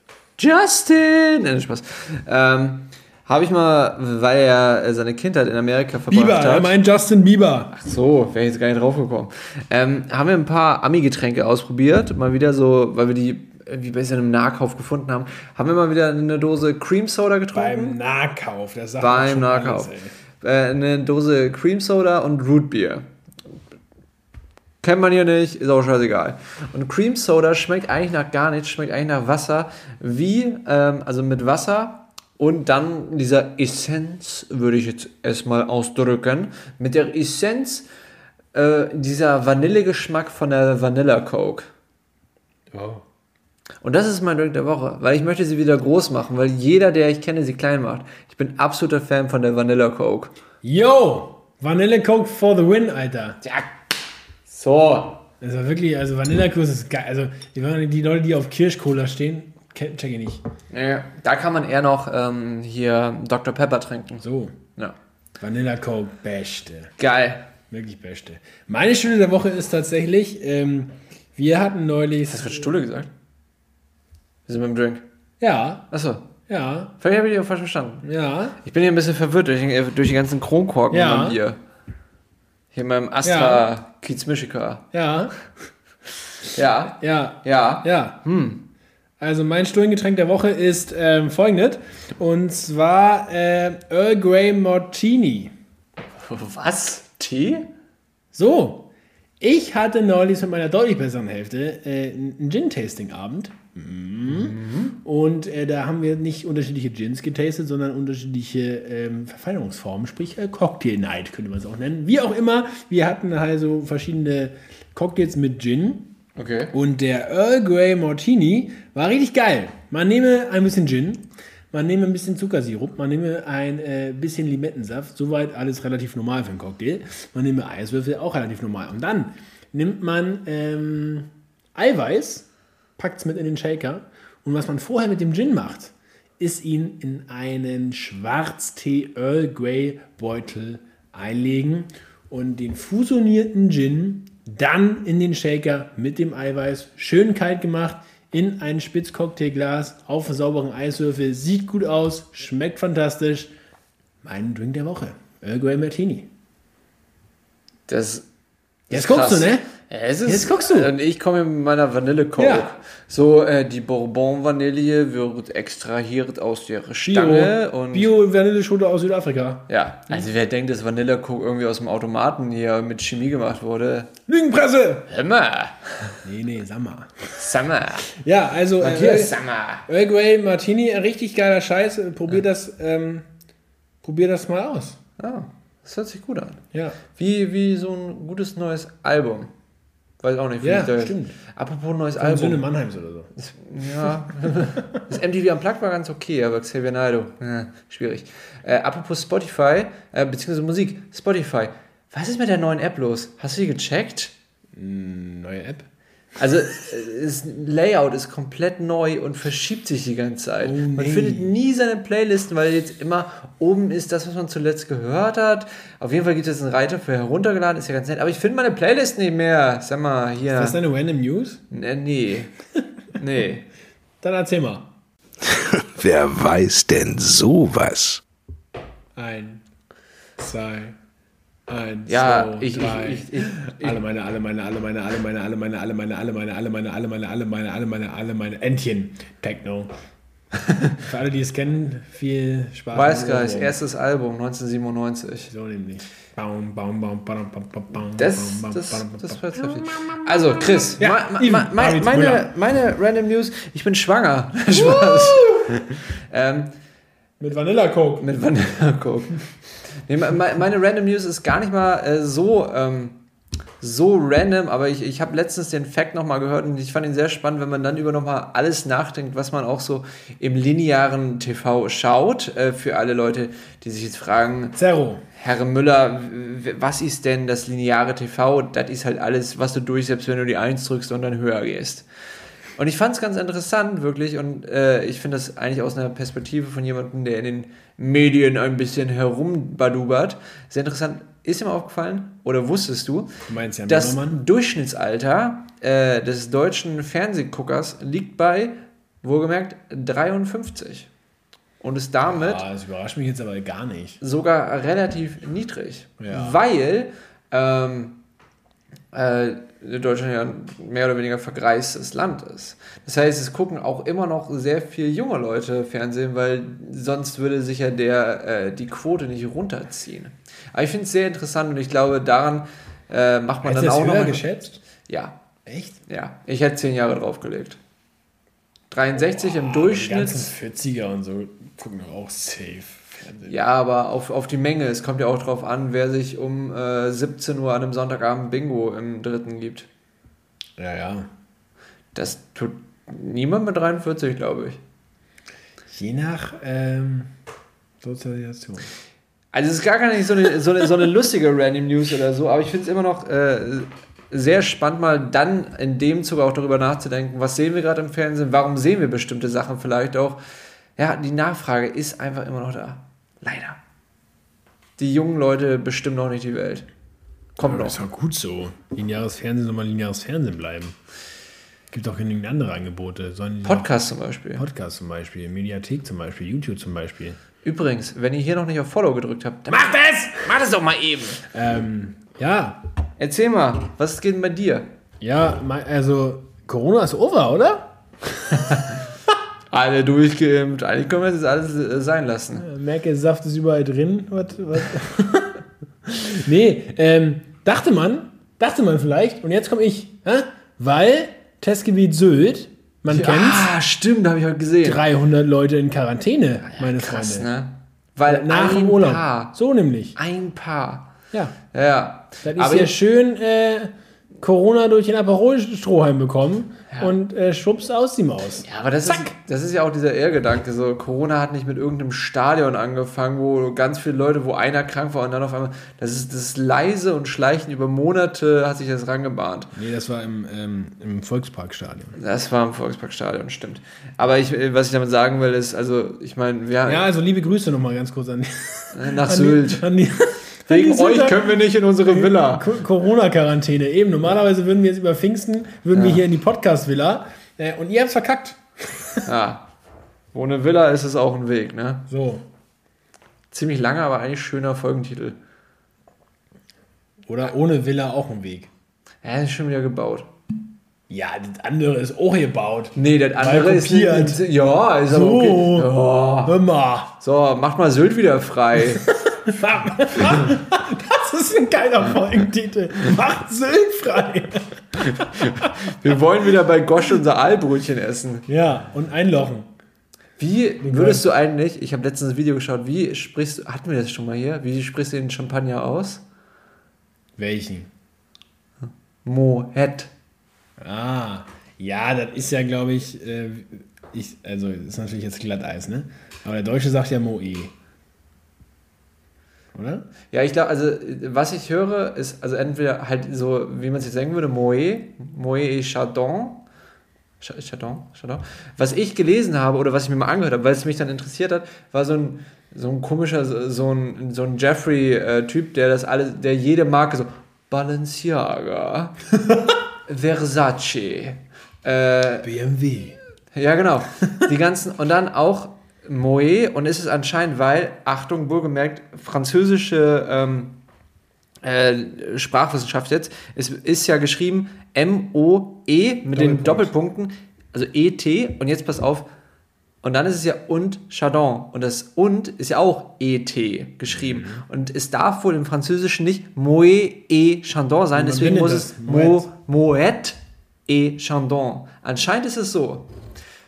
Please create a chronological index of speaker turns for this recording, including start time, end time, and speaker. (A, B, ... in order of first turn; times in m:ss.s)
0:00.4-0:06.7 A
0:06.1-0:07.7 B
0:07.7-0:18.0 A
0:17.5-0:20.1 B
0:19.0-0:23.1 A
0:24.8-0:37.9 A
0:38.5-0:41.7 A
0:42.7-0:43.0 B
0:43.8-0:50.3 A
0:50.6-0:53.4 B
0:53.4-0:53.7 A
0:54.5-0:55.2 A
0:55.4-1:00.4 B
1:00.7-1:04.2 A
1:04.2-1:04.6 B
1:05.4-1:06.9 B
1:07.0-1:07.4 A
1:07.7-1:12.7 B
1:12.3-1:13.1 A
1:14.5-1:15.0 A
1:15.4-1:15.9 B
1:15.9-1:16.3 A
1:16.4-1:17.0 B
1:17.0-1:18.0 A
1:18.0-1:18.6 B
1:18.6-1:21.6 A
1:20.9-1:21.4 B
1:22.7-1:24.9 A
1:23.2-1:23.7 B
1:24.9-1:25.5 B
1:26.5-1:28.6 A
1:26.9-1:28.2 B
1:29.2-1:35.5 B
1:36.2-1:37.7 A
1:38.3-1:56.1 B
1:44.2-1:45.0 A
1:56.4-1:56.7 A
1:56.7-2:33.5 B
2:34.2-2:36.3 B
2:37.9-2:38.3 A
2:38.9-2:39.7 B
2:38.9-2:48.1 A
2:40.3-2:40.9 B
2:42.4-2:42.7 B
2:47.1-2:50.2 B
2:49.7-2:54.1 A
2:54.3-2:55.1 B
2:55.1-2:56.1 A
2:56.2-2:57.4 B
2:57.4-2:58.1 A
2:58.0-3:03.3 B
2:58.8-2:59.9 A
3:04.0-3:05.0 B
3:05.2-3:06.6 A
3:06.7-3:07.0 B
3:07.1-3:09.5 A
3:10.2-3:12.6 A
3:10.6-3:11.4 B
3:12.2-3:13.3 B
3:13.4-3:24.3 A
3:24.8-3:25.9 B
3:26.4-3:40.8 A
3:30.6-3:31.5 B
3:40.4-3:41.6 B
3:41.7-3:42.5 A
3:43.1-3:43.7 A
3:44.2-3:44.9 B
3:45.4-3:48.2 C
3:49.2-3:49.6 B
3:50.4-3:50.9 B
3:51.7-3:59.9 B
3:52.1-3:54.0 A
4:00.9-4:03.8 B
4:02.9-4:05.5 A
4:05.5-4:12.5 B
4:08.2-4:16.7 A
4:14.7-4:15.9 B
4:17.4-4:18.3 B
4:18.2-4:19.5 A
4:20.1-4:23.2 A
4:23.8-4:34.8 A
4:34.8-4:35.2 B
4:35.4-4:42.1 A
4:42.8-4:53.3 A
4:53.5-4:54.4 B
4:53.9-5:01.1 A
5:01.8-5:02.6 A
5:02.2-5:04.2 B
5:04.2-5:08.2 A
5:06.2-5:06.6 B
5:09.1-5:24.4 A
5:23.6-5:24.8 B
5:25.0-5:25.4 A
5:25.6-5:26.0 B
5:26.1-5:27.8 A
5:28.9-5:30.5 A
5:29.4-5:33.5 B
5:33.4-5:39.9 A
5:40.8-5:41.3 B
5:42.1-5:44.8 A
5:45.9-5:47.3 B
5:48.0-5:48.9 B
5:49.5-6:00.4 A
6:01.0-6:03.8 A
6:05.0-6:06.9 A
6:07.6-6:08.0 A
6:07.6-6:11.0 B
6:11.9-6:17.4 B
6:13.6-6:14.6 A
6:17.6-6:21.4 A
6:19.7-6:20.6 B
6:21.5-6:22.8 B
6:23.2-6:24.9 A
6:25.2-6:28.9 B
6:28.6-6:28.9 A
6:29.7-6:32.6 A
6:32.6-6:43.7 B
6:43.1-6:45.0 A
6:44.8-6:47.5 B
6:46.7-6:49.5 A
6:48.3-6:50.2 B
6:50.2-6:51.1 A
6:51.7-6:52.9 A
6:52.4-6:59.3 B
6:58.6-7:09.7 A
7:09.7-7:12.2 B
7:12.2-7:17.0 A
7:16.9-7:29.3 B
7:18.9-7:19.9 A
7:20.7-7:22.7 A
7:25.9-7:26.2 A
7:29.2-7:29.7 A
7:30.3-7:32.1 A
7:32.1-7:32.4 B
7:33.5-7:35.4 A
7:37.3-7:38.7 B
7:39.2-7:40.3 A
7:41.1-7:44.4 B
7:42.9-7:46.6 A
7:45.1-7:45.9 B
7:46.4-7:47.1 B
7:47.2-7:49.1 A
7:49.0-7:55.9 B
7:50.1-7:50.6 A
7:55.1-7:58.4 A
7:58.5-7:59.7 B
8:00.4-8:06.2 A
8:00.8-8:01.2 B
8:07.4-8:07.9 B
8:09.2-8:10.1 A
8:10.8-8:17.7 B
8:19.7-8:20.1 B
8:20.3-8:26.6 A
8:27.4-8:39.2 A
8:40.1-8:42.5 A
8:42.4-8:43.2 B
8:43.5-8:50.8 A
8:51.6-8:59.3 A
8:56.3-8:56.9 B
9:00.0-9:13.1 A
9:04.1-9:04.6 B
9:08.1-9:09.5 B